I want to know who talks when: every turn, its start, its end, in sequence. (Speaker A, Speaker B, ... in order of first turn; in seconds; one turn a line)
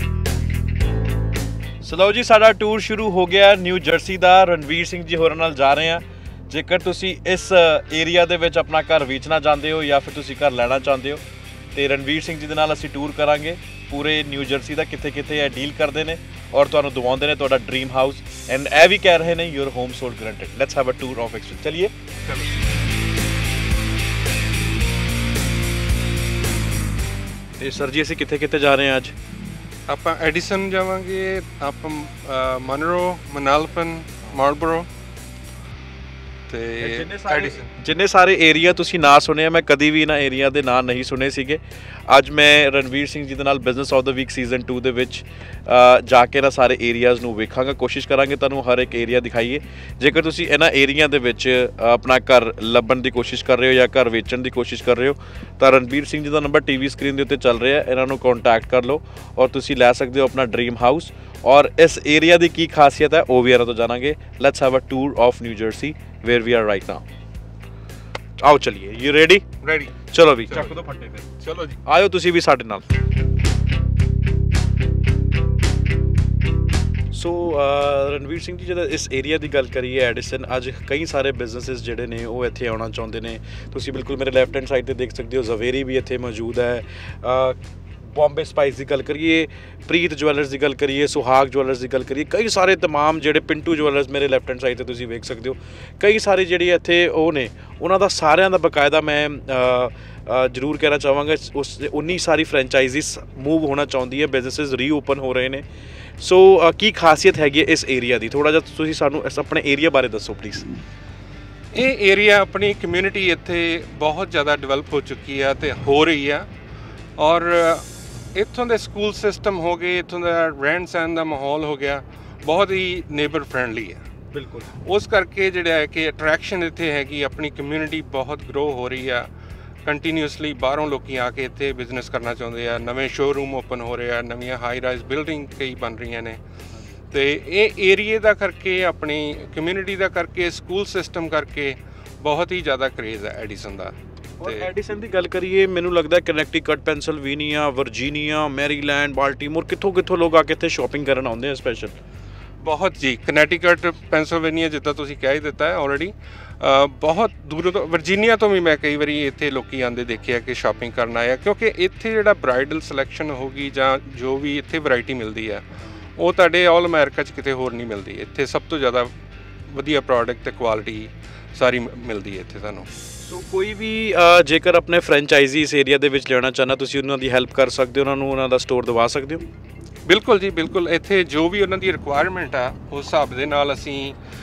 Speaker A: 1.8-11.2
Speaker A: 11.7-21.9
Speaker A: 27.6-29.1
Speaker B: 29.9-34.9
Speaker B: 36.5-37.7
Speaker A: 36.8-67.0
Speaker A: 68.4-69.5
Speaker B: 69.6-69.9
Speaker A: 70.1-71.3
Speaker B: 70.5-70.8
Speaker B: 71.4-71.8
Speaker A: 71.8-72.9
Speaker A: 77.1-87.6
Speaker A: 88.1-105.6
Speaker A: 106.2-110.7
Speaker B: 111.7-116.5
Speaker B: 117.2-124.0
Speaker A: 124.3-124.7
Speaker B: 124.8-129.3
Speaker B: 129.8-136.4
Speaker B: 137.1-144.7
Speaker A: 144.4-152.0
Speaker B: 152.6-165.6
Speaker B: 166.2-169.1
Speaker B: 169.7-172.9
Speaker A: 173.2-179.4
Speaker B: 180.1-184.2